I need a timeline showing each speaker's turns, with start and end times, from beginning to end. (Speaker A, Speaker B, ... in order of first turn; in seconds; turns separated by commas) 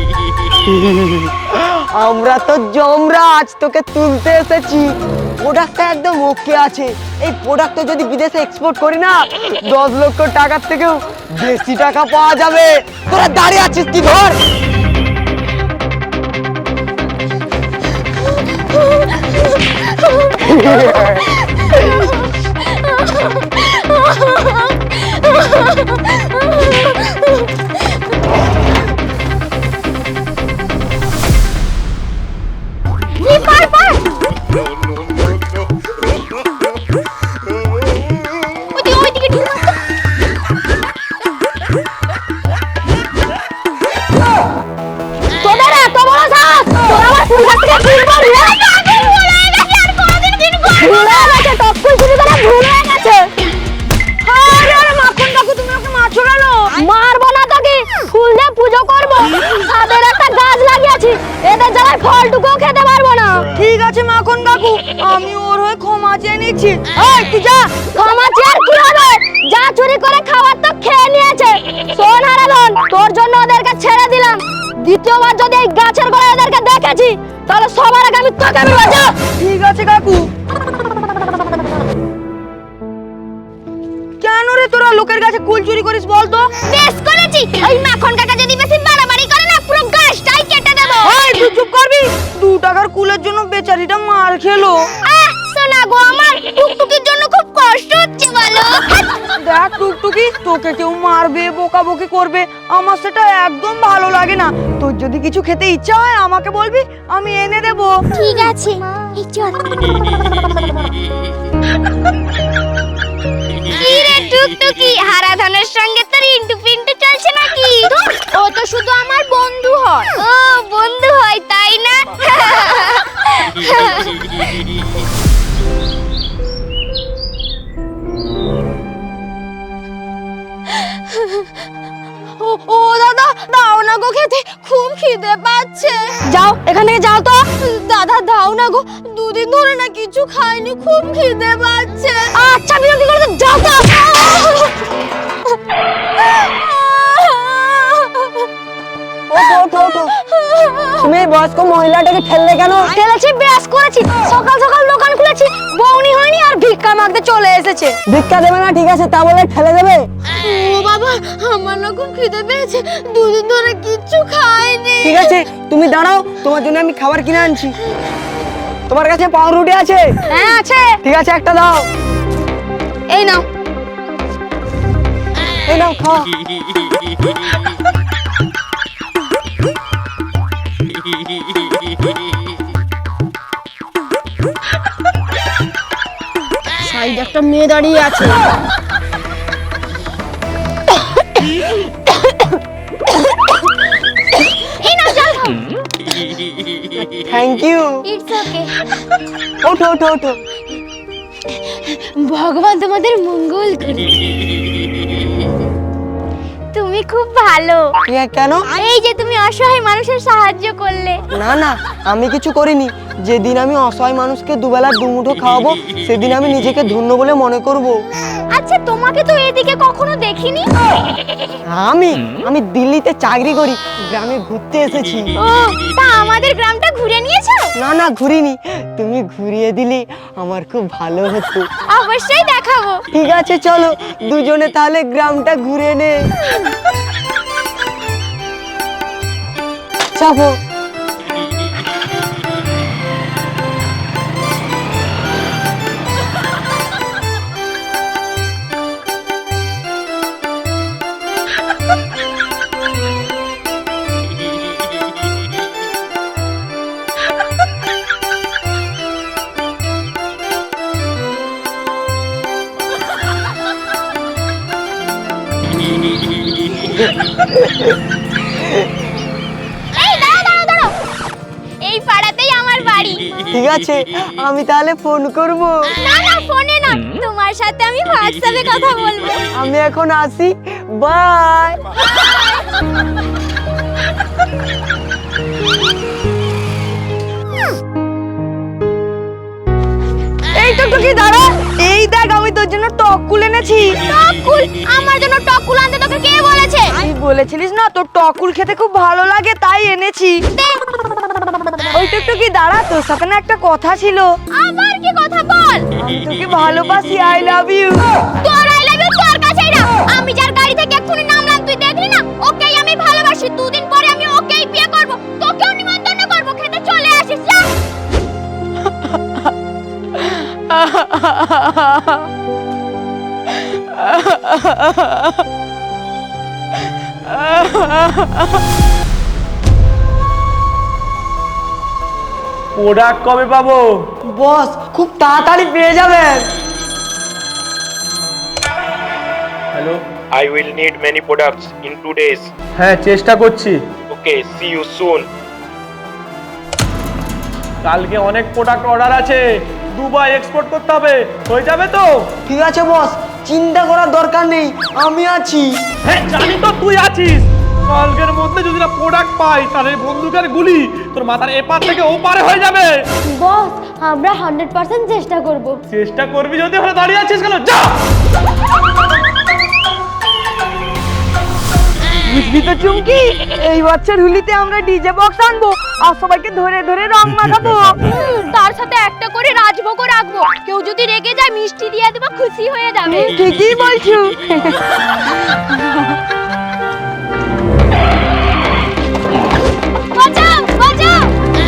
Speaker A: 0.7-14.4, Speaker B: 20.4-22.1, Speaker B: 22.7-27.1, Speaker B: 33.2-34.0, Speaker B: 38.7-39.7, Speaker B: 45.4-53.3, Speaker C: 50.8-51.5, Speaker C: 54.2-56.8, Speaker B: 56.8-63.5, Speaker C: 63.5-67.9, Speaker B: 68.0-79.1, Speaker C: 79.4-80.3, Speaker C: 84.2-86.5, Speaker B: 86.7-91.1, Speaker C: 91.0-94.8, Speaker B: 95.0-98.8, Speaker C: 99.3-108.0, Speaker B: 108.1-110.2, Speaker B: 113.8-124.1, Speaker B: 132.4-136.2, Speaker C: 136.3-137.4, Speaker B: 137.5-142.5, Speaker B: 143.4-144.7, Speaker B: 146.4-148.5, Speaker A: 149.3-150.1, Speaker B: 150.3-151.1, Speaker A: 151.0-152.9, Speaker B: 152.9-156.9, Speaker B: 157.6-157.9, Speaker A: 158.1-160.1, Speaker B: 160.4-165.3, Speaker A: 165.0-167.8, Speaker A: 168.9-170.1, Speaker B: 170.3-170.6, Speaker A: 171.0-171.8, Speaker A: 175.7-176.3, Speaker B: 194.8-195.6, Speaker A: 197.2-197.9, Speaker B: 198.1-198.8, Speaker A: 199.6-200.4, Speaker B: 202.2-204.2, Speaker B: 206.7-207.9, Speaker A: 208.1-208.7, Speaker B: 208.7-211.2, Speaker A: 211.3-218.0, Speaker B: 218.5-220.7, Speaker A: 221.7-225.3, Speaker B: 225.4-227.7, Speaker A: 227.8-231.7, Speaker B: 231.9-233.0, Speaker A: 233.1-236.3, Speaker A: 240.2-240.6, Speaker B: 269.9-270.9, Speaker B: 271.8-273.2, Speaker A: 273.5-275.8, Speaker B: 276.0-279.4, Speaker A: 279.6-281.8, Speaker C: 290.6-293.9, Speaker B: 294.1-297.0, Speaker C: 297.0-300.4, Speaker B: 300.6-300.8, Speaker C: 301.9-304.3, Speaker B: 304.6-305.9, Speaker C: 306.0-308.0, Speaker B: 308.4-317.7, Speaker D: 332.8-333.9, Speaker A: 334.3-336.5, Speaker D: 339.7-340.0, Speaker E: 340.4-342.5, Speaker D: 342.8-343.8, Speaker E: 344.1-345.2, Speaker D: 347.9-349.4, Speaker D: 349.9-352.1, Speaker A: 352.5-355.8, Speaker D: 356.1-362.9, Speaker B: 363.3-365.8, Speaker D: 365.9-367.9, Speaker C: 372.3-378.0, Speaker B: 378.1-383.3, Speaker C: 383.2-384.8, Speaker B: 390.1-391.3